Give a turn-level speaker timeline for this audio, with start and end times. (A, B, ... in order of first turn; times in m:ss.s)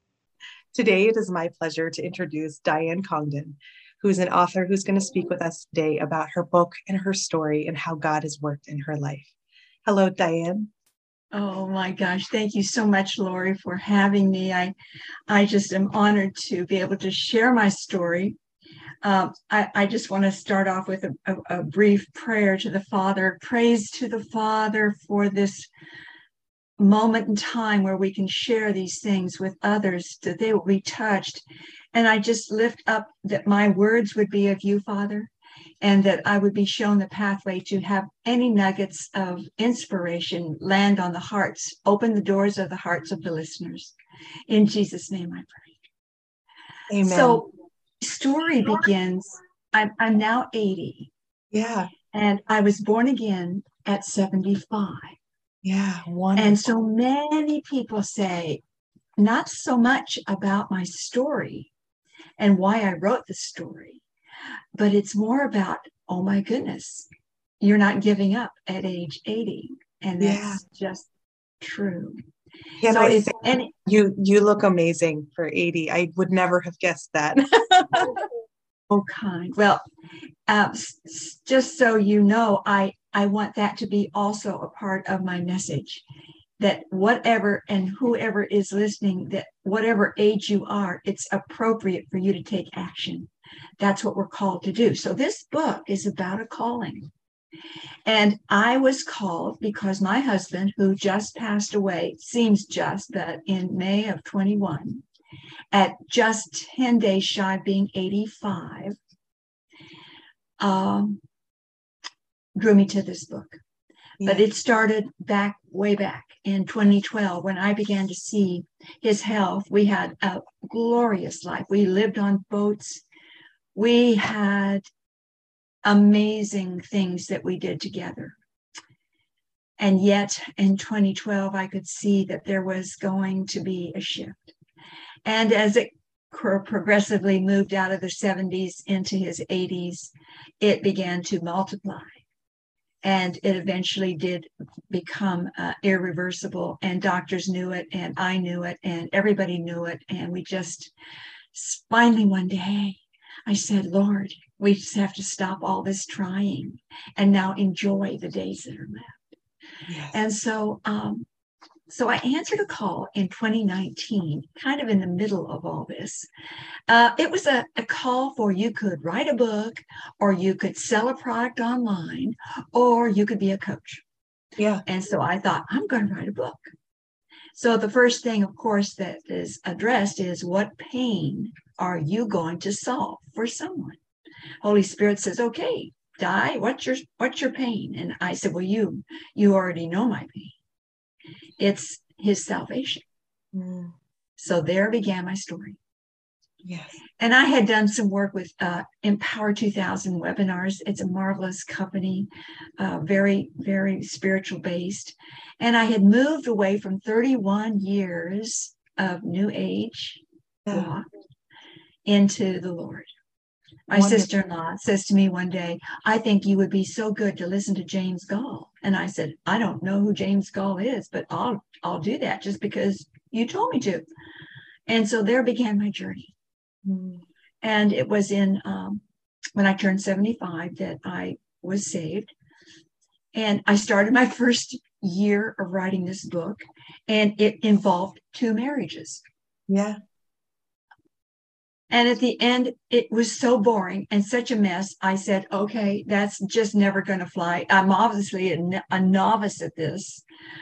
0:00.7-0:09.3 A
0:09.8-0:10.7 A
0:11.3-0:14.7 B
0:15.3-0:18.4 B
0:19.0-0:25.7 B
0:26.8-0:35.3 B
0:35.8-0:43.9 B
0:44.5-0:45.8 B
0:46.9-0:47.4 A
0:47.0-0:47.5 B
0:48.0-0:51.1 B
0:51.5-0:51.9 A
0:52.1-0:55.2 B
0:55.6-0:56.6 A
0:56.4-0:58.6 B
0:59.2-1:01.7 B
1:02.4-1:04.0 B
1:04.8-1:07.1 B
1:07.6-1:11.1 B
1:10.2-1:10.6 A
1:11.6-1:12.2 B
1:12.8-1:18.2 A
1:12.9-1:13.7 B
1:18.9-1:19.8 B
1:20.5-1:26.0 B
1:26.6-1:37.1 B
1:38.1-1:45.0 B
1:45.7-1:49.0 B
1:50.6-1:51.2 B
1:52.6-1:53.6 B
1:54.2-1:54.4 A
1:54.2-2:03.0 B
2:03.8-2:04.8 B
2:05.8-2:08.4 B
2:09.8-2:14.6 B
2:15.2-2:22.2 B
2:23.0-2:30.9 B
2:31.5-2:39.3 B
2:39.9-2:40.2 A
2:40.1-2:41.3 B
2:41.9-2:46.3 B
2:46.9-2:54.0 B
2:54.6-2:54.8 A
2:54.9-2:56.6 B
2:57.6-3:04.0 B
3:04.6-3:10.6 B
3:11.6-3:13.0 B
3:13.5-3:13.9 A
3:14.4-3:15.8 B
3:16.6-3:17.0 A
3:17.2-3:31.0 B
3:30.7-3:30.9 A
3:32.1-3:33.1 B
3:33.9-3:44.0 B
3:33.9-3:34.3 A
3:44.9-3:46.3 B
3:46.8-3:47.2 A
3:47.6-3:49.0 B
3:49.6-3:52.3 B
3:53.3-3:59.2 B
3:59.7-4:00.0 A
4:01.9-4:10.2 B